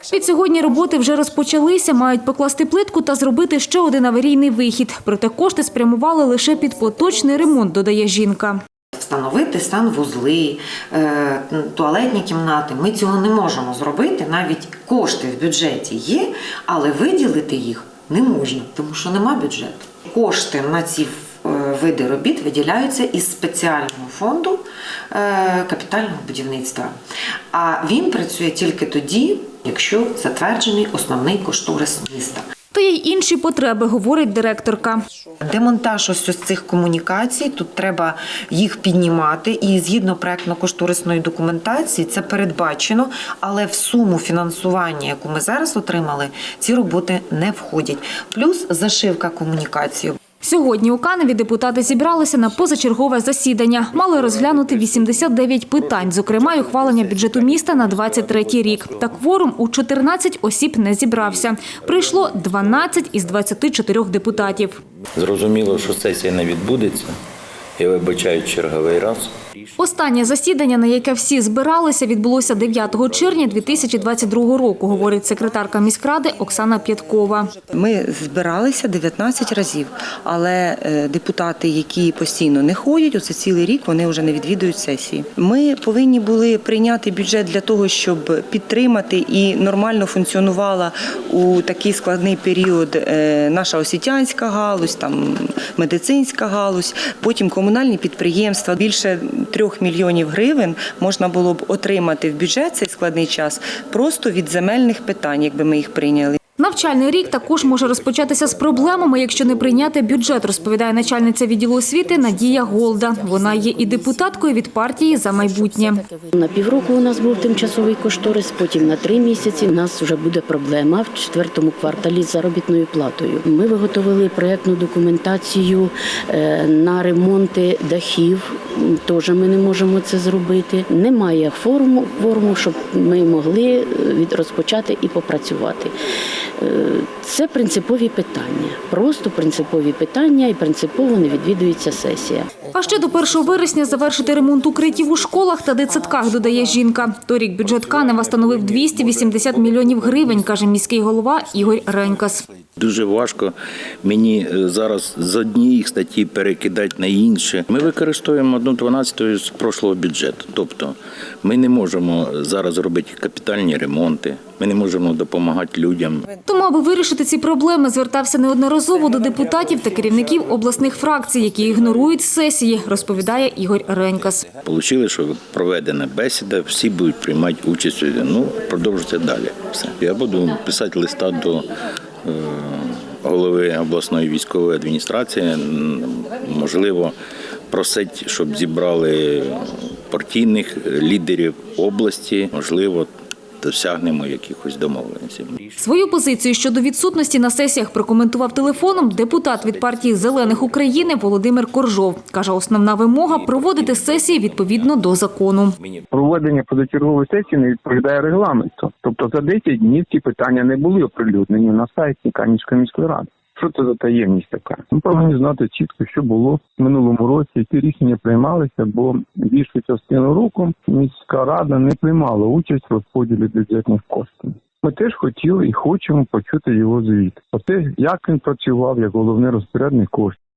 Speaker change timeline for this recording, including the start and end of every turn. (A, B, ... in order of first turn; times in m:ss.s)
0:00.1-0:08.6 A
0:09.0-0:26.9 B
0:27.5-0:32.4 B
0:32.7-0:35.0 A
0:35.4-0:50.2 B
0:50.4-1:04.8 A
1:05.2-1:07.1 C
1:07.8-1:09.3 C
1:09.8-1:17.5 A
1:17.7-1:46.4 D
1:46.6-1:56.0 A
1:53.7-1:54.1 E
1:55.6-2:15.9 E
2:16.6-2:22.6 E
2:22.7-2:32.5 A
2:32.8-2:46.3 C
2:46.5-2:54.4 A
2:54.6-3:01.7 C
3:02.2-3:07.2 C
3:07.7-3:13.1 C
3:13.6-3:15.7 C
3:15.8-3:25.8 A
3:19.9-3:20.8 C
3:23.3-3:24.9 C
3:25.8-3:26.1 C
3:26.1-3:50.4 F